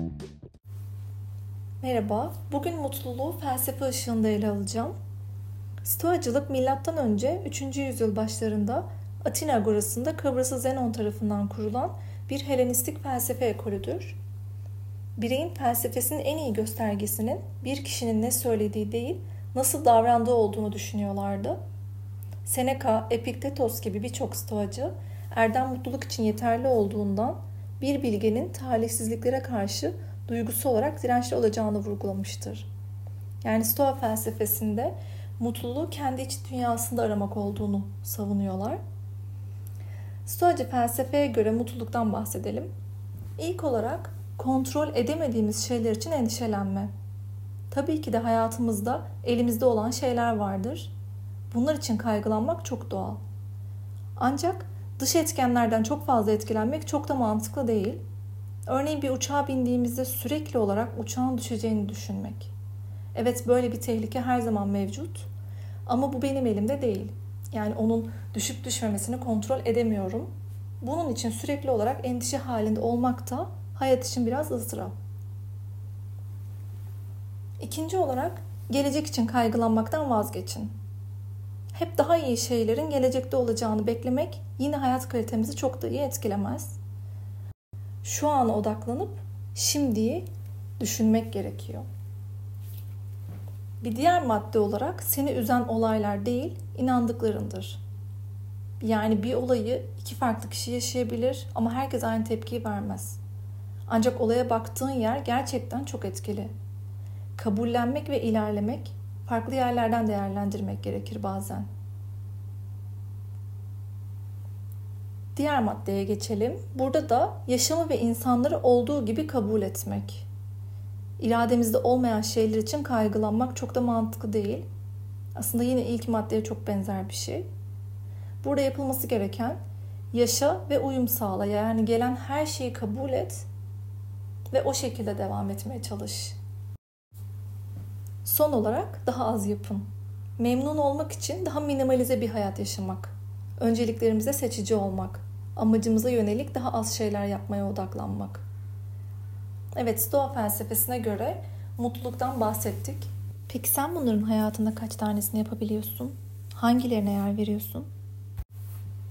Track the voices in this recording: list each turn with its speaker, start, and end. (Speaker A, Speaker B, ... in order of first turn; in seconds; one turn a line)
Speaker A: 1.8-4.9
Speaker A: 5.8-14.2
Speaker A: 15.2-21.6
Speaker A: 22.4-32.7
Speaker A: 33.4-38.8
Speaker A: 40.2-42.7
Speaker A: 43.4-46.9
Speaker A: 47.7-50.9
Speaker A: 51.5-53.2
Speaker A: 54.2-58.0
Speaker A: 58.7-62.5
Speaker A: 63.1-65.3
Speaker A: 65.8-70.3
Speaker A: 70.8-74.9
Speaker A: 77.6-80.7
Speaker A: 81.7-86.8
Speaker A: 88.0-90.3
Speaker A: 90.8-91.8
Speaker A: 93.8-97.8
Speaker A: 98.8-103.2
Speaker A: 103.9-106.5
Speaker A: 107.3-111.7
Speaker A: 115.3-120.2
Speaker A: 121.2-124.7
Speaker A: 125.3-127.5
Speaker A: 128.4-129.6
Speaker A: 130.1-133.5
Speaker A: 134.5-136.4
Speaker A: 138.2-148.4
Speaker A: 149.7-157.9